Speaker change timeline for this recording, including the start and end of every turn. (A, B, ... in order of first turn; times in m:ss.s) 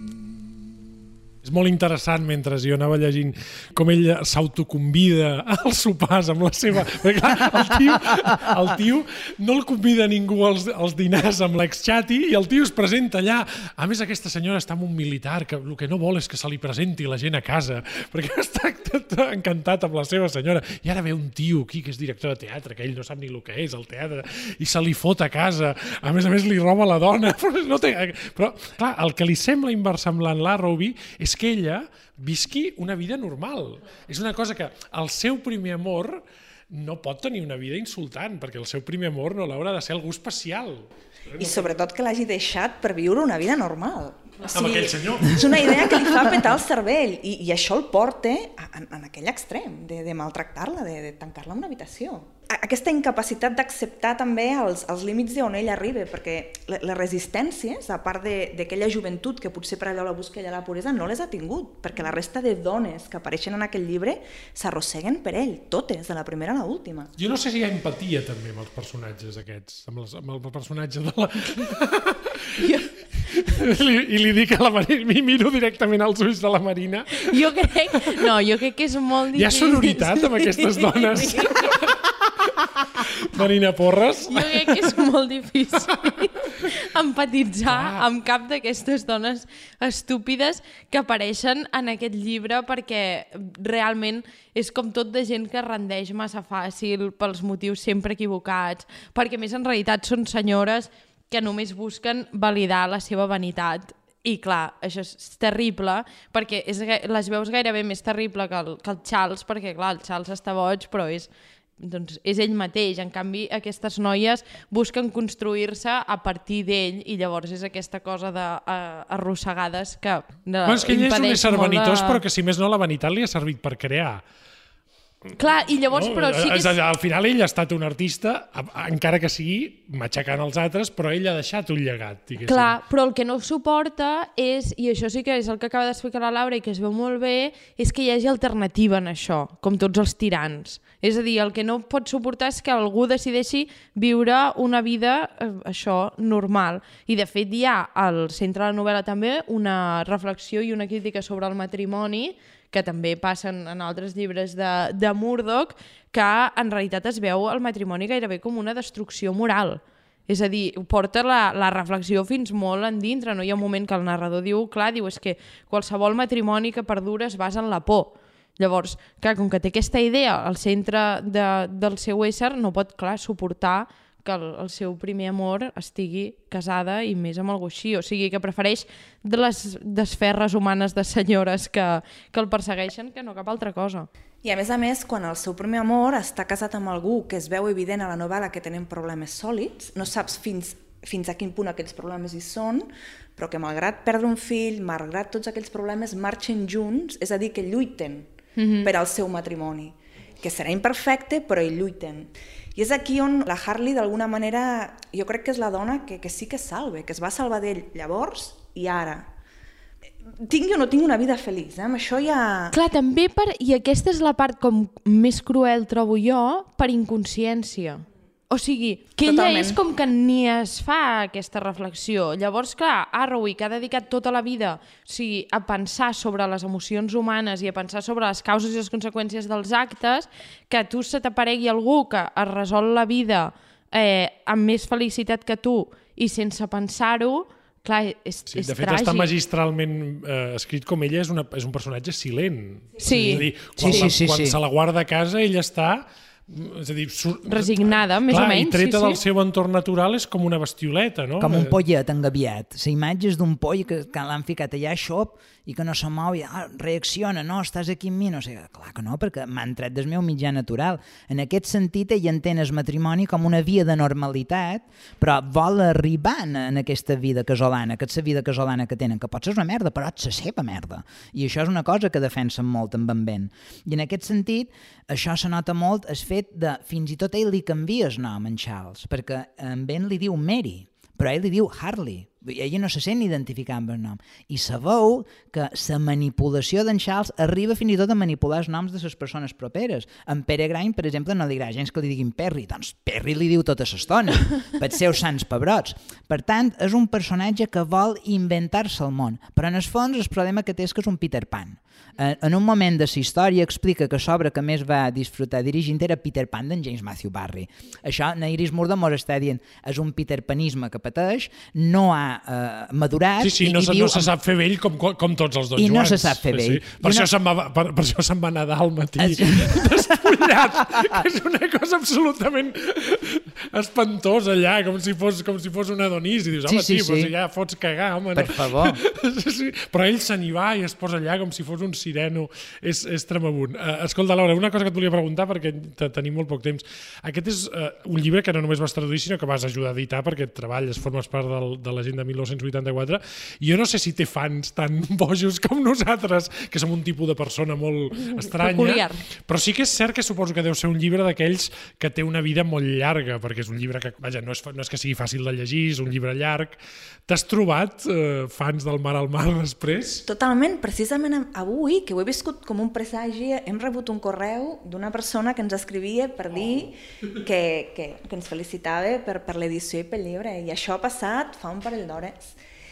0:01.4-0:41.7 A
0:41.4-1:07.1 B
0:44.4-0:45.8 A
1:07.2-1:12.7 A
1:12.6-1:12.9 C
1:13.3-1:17.4 A
1:17.1-1:22.0 C
1:19.4-1:24.8 A
1:24.3-2:02.2 C
1:26.1-1:26.6 A
1:27.7-1:28.1 A
2:00.6-2:04.2 A
2:05.4-2:06.8 C
2:05.9-2:12.8 A
2:12.5-3:04.1 C
3:04.4-3:29.3 B
3:18.6-3:18.9 C
3:30.4-3:32.8 B
3:32.7-3:59.3 C
3:39.2-3:39.8 B
3:58.5-4:11.8 A
4:03.0-4:03.5 C
4:03.8-4:04.6 D
4:07.5-4:09.2 C
4:11.4-5:14.3 D
5:13.4-6:00.2 A
5:15.8-5:17.3 D
5:19.2-5:21.2 D
5:26.7-5:27.3 D
5:28.4-5:29.0 D
5:48.4-5:49.2 C
6:00.3-6:12.6 B